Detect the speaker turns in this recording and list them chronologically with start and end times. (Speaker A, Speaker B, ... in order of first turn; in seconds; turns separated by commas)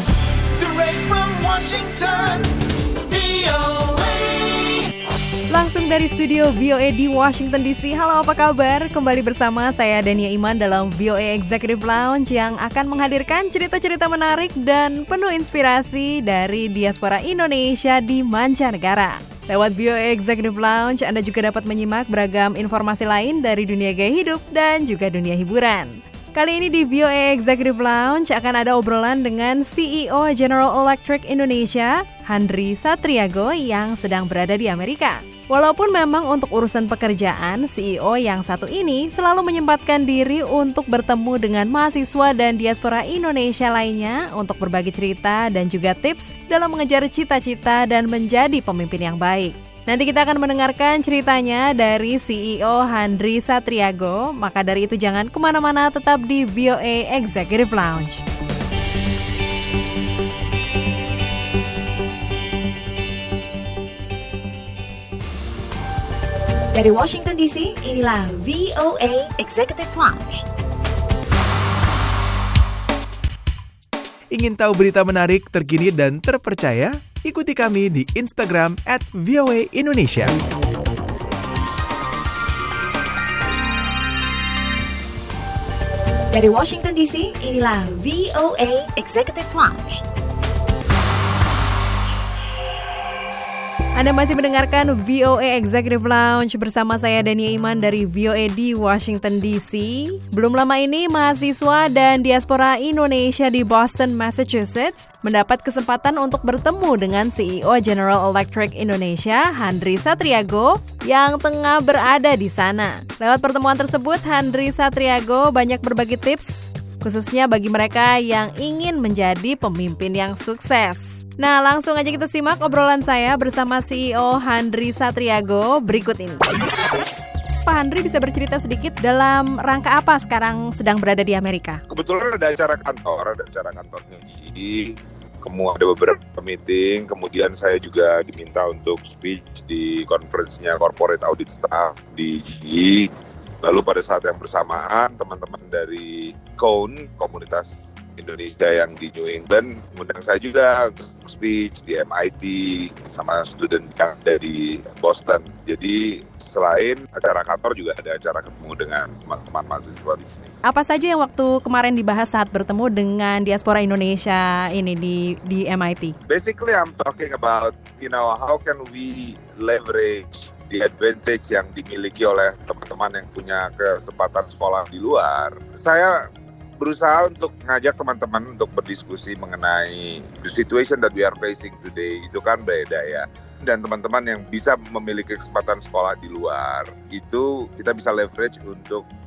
Speaker A: 0.6-4.9, Speaker B: 5.5-58.2, Speaker C: 66.7-70.4, Speaker D: 74.3-80.4, Speaker C: 86.3-90.0, Speaker B: 94.0-126.5, Speaker B: 127.7-131.8, Speaker E: 131.9-143.1, Speaker E: 143.6-160.5, Speaker B: 160.6-166.2, Speaker E: 166.3-176.2, Speaker E: 176.8-189.1